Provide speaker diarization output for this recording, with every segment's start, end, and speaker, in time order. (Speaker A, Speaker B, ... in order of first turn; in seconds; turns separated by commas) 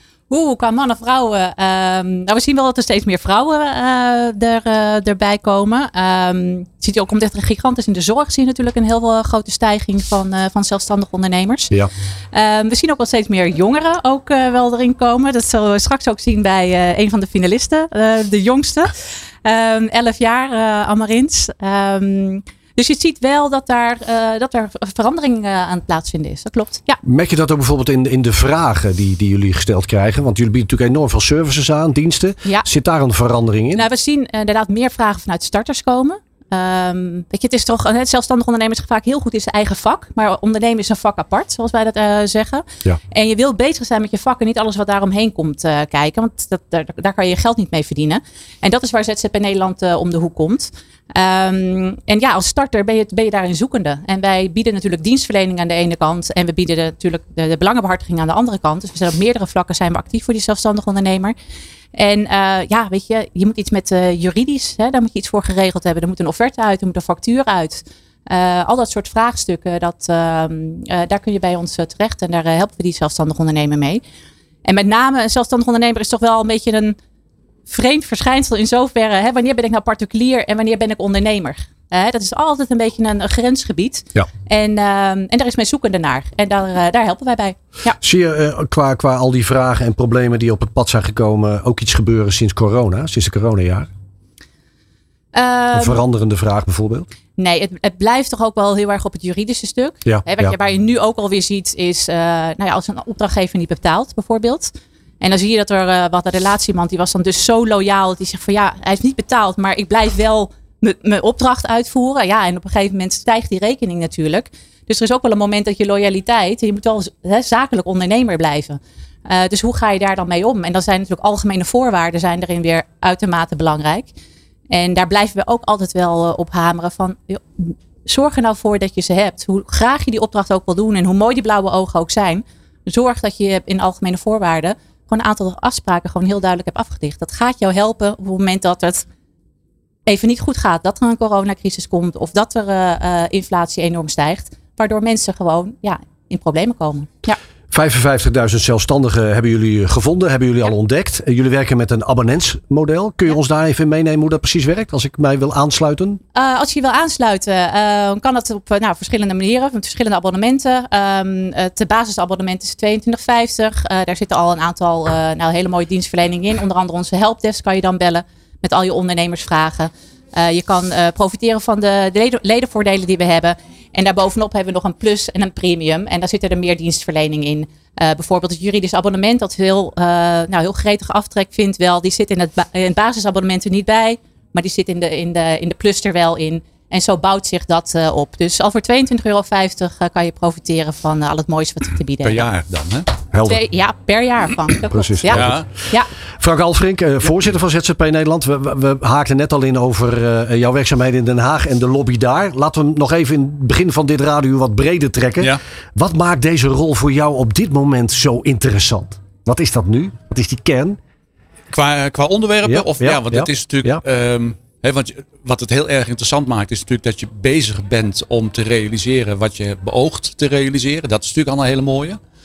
Speaker A: 0.3-11.7, Speaker A: 12.3-27.0, Speaker B: 27.0-33.9, Speaker A: 33.7-61.4, Speaker A: 61.9-74.0, Speaker A: 74.7-77.0, Speaker A: 77.7-88.0, Speaker B: 88.0-93.9, Speaker A: 95.3-96.0, Speaker B: 95.7-97.1, Speaker A: 97.4-124.1, Speaker B: 100.0-100.5, Speaker A: 124.7-139.1, Speaker A: 140.1-147.4, Speaker B: 147.7-156.2, Speaker A: 156.3-192.4, Speaker C: 192.2-193.1, Speaker B: 193.3-193.6, Speaker A: 193.5-196.1, Speaker B: 194.9-195.6, Speaker C: 195.3-195.7, Speaker B: 196.4-211.0, Speaker C: 211.7-222.2, Speaker B: 212.7-214.0